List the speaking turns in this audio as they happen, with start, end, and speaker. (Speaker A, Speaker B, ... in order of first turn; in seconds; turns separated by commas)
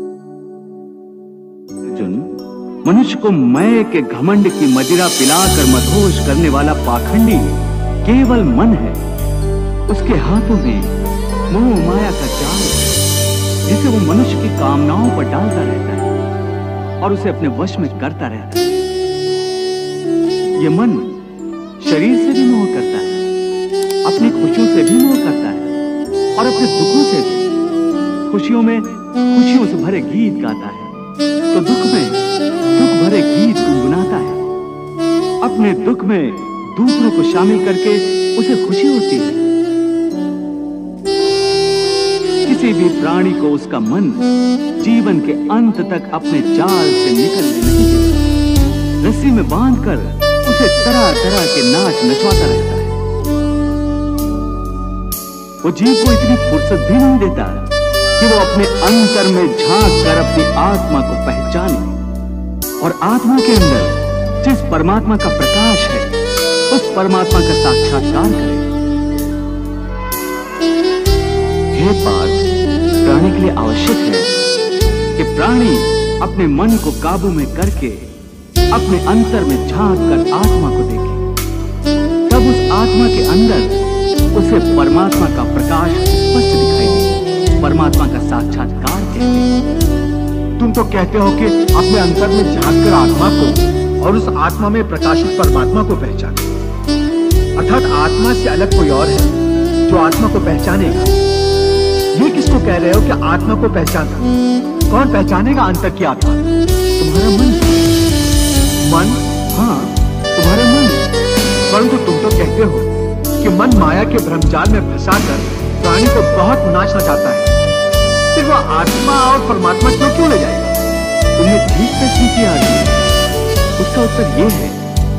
Speaker A: 1.9-2.3, Speaker A: 2.8-9.0, Speaker A: 9.9-10.9, Speaker A: 11.5-12.9, Speaker A: 13.7-16.1, Speaker A: 17.0-18.8, Speaker A: 20.6-21.1, Speaker A: 21.8-23.2, Speaker A: 24.0-25.7, Speaker A: 26.3-27.5, Speaker A: 28.3-30.9, Speaker A: 31.5-34.5, Speaker A: 35.4-39.4, Speaker A: 42.4-44.3, Speaker A: 44.8-48.2, Speaker A: 49.0-53.0, Speaker A: 55.6-57.7, Speaker A: 58.2-61.9, Speaker A: 62.8-66.1, Speaker A: 66.7-68.7, Speaker A: 71.7-72.4, Speaker A: 73.0-74.3, Speaker A: 75.1-78.0, Speaker A: 78.7-81.2, Speaker A: 82.3-83.8, Speaker A: 84.3-89.5, Speaker B: 90.6-96.4, Speaker B: 97.5-99.3, Speaker B: 99.8-101.1, Speaker B: 102.1-104.2, Speaker B: 104.9-106.5, Speaker A: 107.0-107.8, Speaker B: 108.8-109.2, Speaker A: 109.5-111.1, Speaker B: 111.7-117.5, Speaker B: 118.3-120.8, Speaker A: 121.4-123.0, Speaker A: 123.8-124.8